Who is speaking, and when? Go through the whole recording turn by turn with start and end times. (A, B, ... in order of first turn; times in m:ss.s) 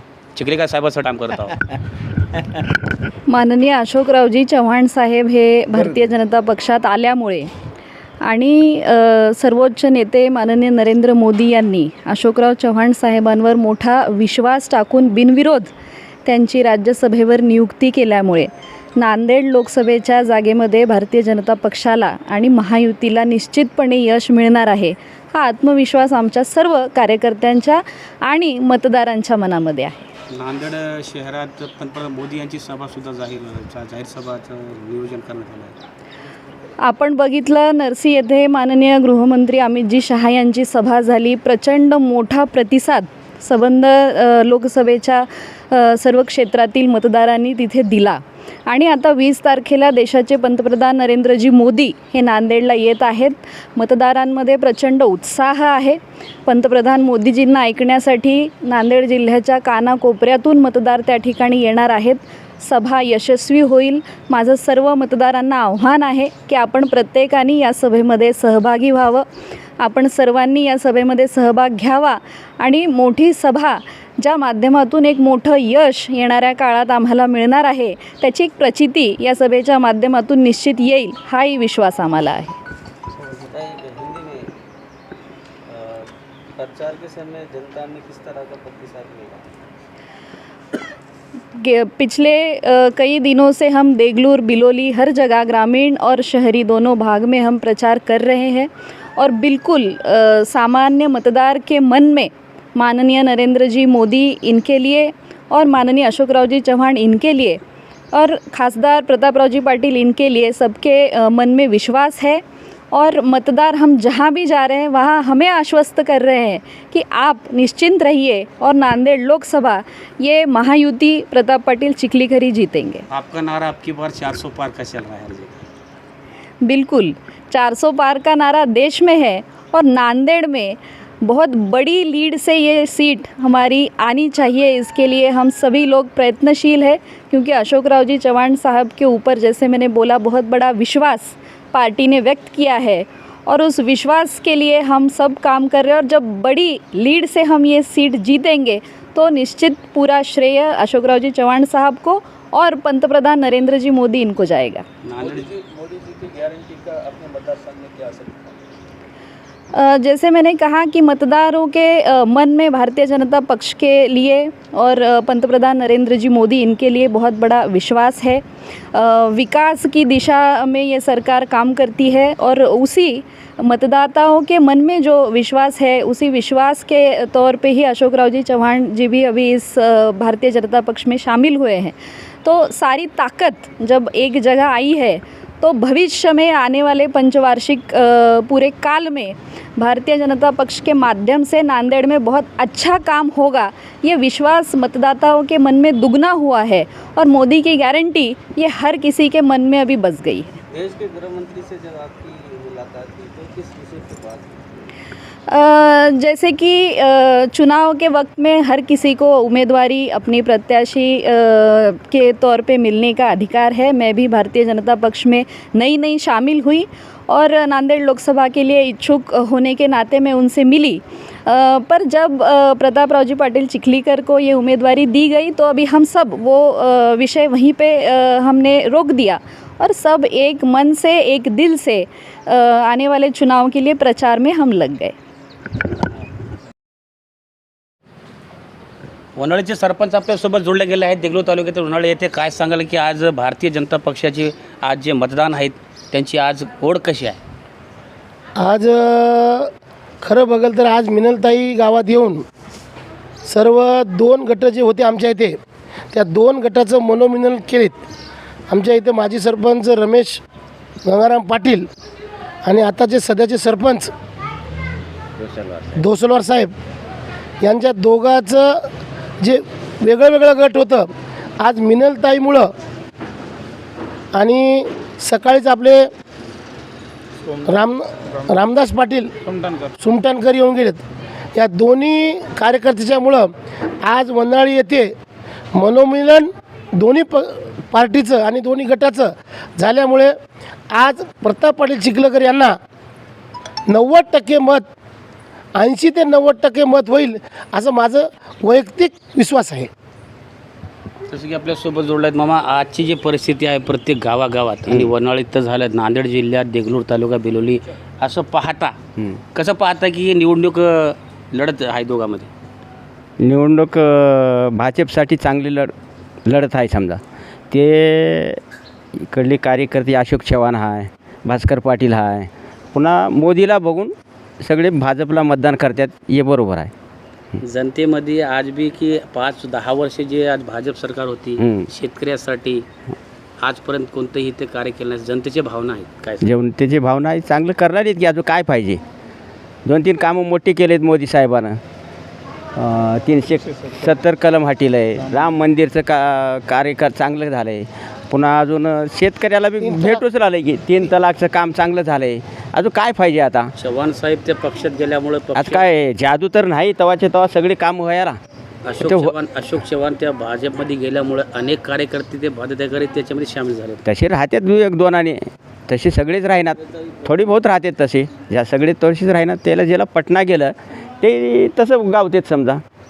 0:00.3-0:01.6 A
0:03.3-0:07.5 B
0:08.2-0:15.7 B
0:16.2-0:30.1 B
0:30.3-0:35.8 A
0:36.8-1:09.2 B
1:09.8-1:22.6 B
1:23.5-1:24.5 C
1:25.7-1:29.4 C
1:31.5-1:47.6 B
1:48.1-2:03.0 B
2:03.1-2:05.6 A
2:06.6-2:34.8 B
2:35.0-2:35.5 A
2:35.2-2:38.5 C
2:39.7-3:20.6 B
3:20.7-3:24.6 C
3:25.5-3:55.1 B
3:59.4-4:07.4 A
4:08.6-4:09.7 D
4:10.2-4:12.4 D
4:13.4-4:15.6 D
4:16.1-4:18.0 D
4:18.7-4:20.4 D
4:21.0-4:21.9 D
4:22.6-4:24.1 D
4:25.4-4:25.9 C
4:25.9-4:26.7 D
4:27.6-4:28.8 D
4:29.4-4:32.7 D
4:34.3-4:36.1 D
4:37.6-4:41.0 D
4:41.5-4:43.5 D
4:44.0-4:45.1 D
4:45.7-4:50.4 D
4:50.9-4:52.8 D
4:53.9-4:54.8 D
4:55.8-4:59.9 D
5:01.3-5:09.0 A
5:09.5-5:12.5 A
5:13.4-5:15.9 E
5:16.4-5:18.6 E
5:19.3-5:26.9 E
5:27.6-5:32.8 A
5:31.6-5:31.9 E
5:33.6-5:36.5 A
5:36.4-5:39.0 E
5:39.8-5:41.8 E
5:42.7-5:53.7 E
5:49.8-5:50.2 D
5:53.8-5:55.9 A
5:55.5-5:58.4 E
5:58.8-6:04.0 A
5:59.0-5:59.3 E
6:04.0-6:12.8 E